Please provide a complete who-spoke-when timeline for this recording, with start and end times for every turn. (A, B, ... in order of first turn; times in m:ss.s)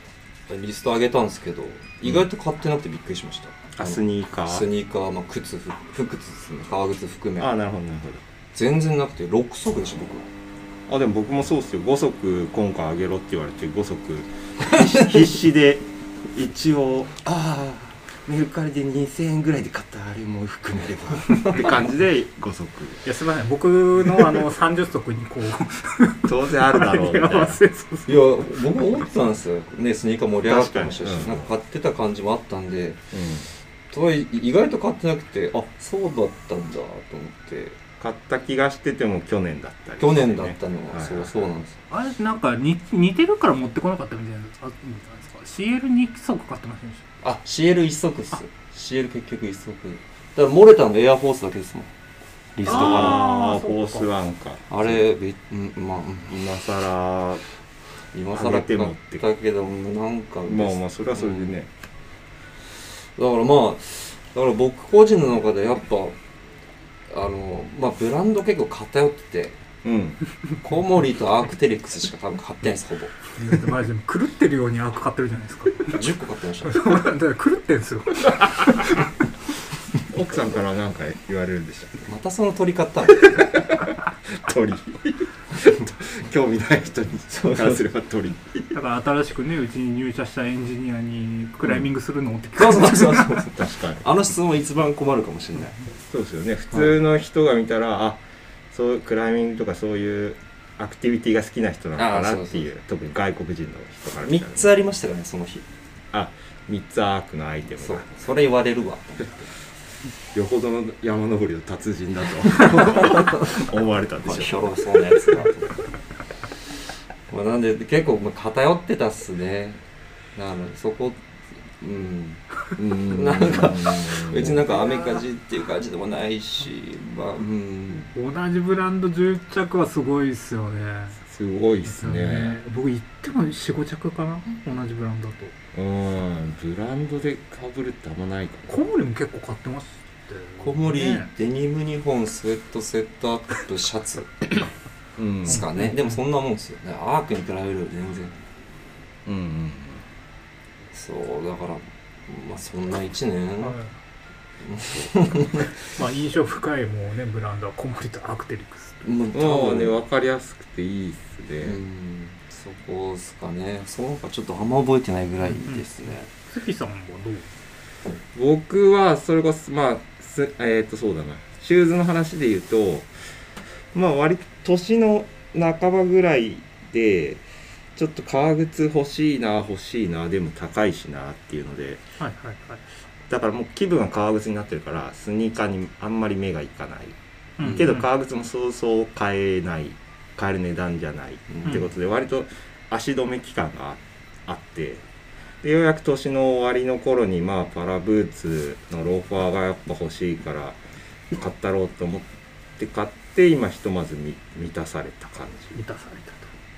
0:00.5-0:07.5 A
0:03.7-0:04.7 B
0:07.4-0:08.2 B
0:08.5-0:10.3 A
0:10.9-0:23.1 B
0:23.0-0:28.5 C
0:26.2-0:27.6 B
0:28.1-0:33.0 A
0:30.4-0:31.5 B
0:33.1-0:33.5 B
0:33.9-0:37.8 A
0:38.0-0:41.5 B
0:40.0-0:41.8 A
0:41.9-0:47.1 C
0:47.2-0:51.9 A
0:52.6-0:53.2 A
0:52.6-0:55.0 B
0:52.7-0:54.1 C
0:54.7-0:56.5 A
0:56.3-0:57.4 B
0:58.1-1:01.5 A
0:58.3-0:59.2 B
1:00.4-1:01.7 B
1:03.2-1:06.2 A
1:07.1-1:09.6 A
1:09.8-1:10.2 B
1:10.6-1:13.2 A
1:13.4-1:16.0 C
1:15.9-1:17.1 A
1:16.6-1:19.0 C
1:20.1-1:22.1 B
1:22.1-1:23.6 A
1:23.2-1:28.8 B
1:27.3-1:27.8 A
1:28.7-1:33.3 C
1:32.6-1:35.8 A
1:33.2-1:34.1 B
1:36.1-1:44.7 B
1:42.0-1:42.7 A
1:44.2-1:45.7 A
1:46.1-1:48.1 B
1:47.7-1:49.5 A
1:50.3-1:55.5 B
1:52.8-1:53.4 A
1:54.2-1:55.7 A
1:57.3-1:59.8 A
2:00.4-2:01.2 A
2:01.8-2:08.1 A
2:02.8-2:04.7 B
2:08.1-2:11.2 C
2:11.2-2:12.6 B
2:11.8-2:15.5 C
2:15.7-2:18.9 B
2:18.7-2:21.3 C
2:20.6-2:24.5 A
2:25.2-2:25.6 B
2:25.4-2:28.4 A
2:25.5-2:26.2 C
2:29.3-2:30.0 B
2:30.9-2:33.8 A
2:33.6-2:33.9 C
2:34.6-2:35.6 A
2:34.8-2:35.1 B
2:35.8-2:39.0 C
2:39.0-2:40.0 A
2:39.3-2:41.8 B
2:41.6-2:46.3 A
2:45.5-2:45.8 C
2:46.5-2:47.5 C
2:48.3-2:53.3 B
2:53.9-2:57.4 B
2:58.0-3:02.0 B
3:02.2-3:02.8 C
3:03.3-3:15.1 B
3:07.6-3:08.1 C
3:11.5-3:11.9 A
3:15.6-3:20.8 B
3:21.3-3:25.8 B
3:25.8-3:26.5 C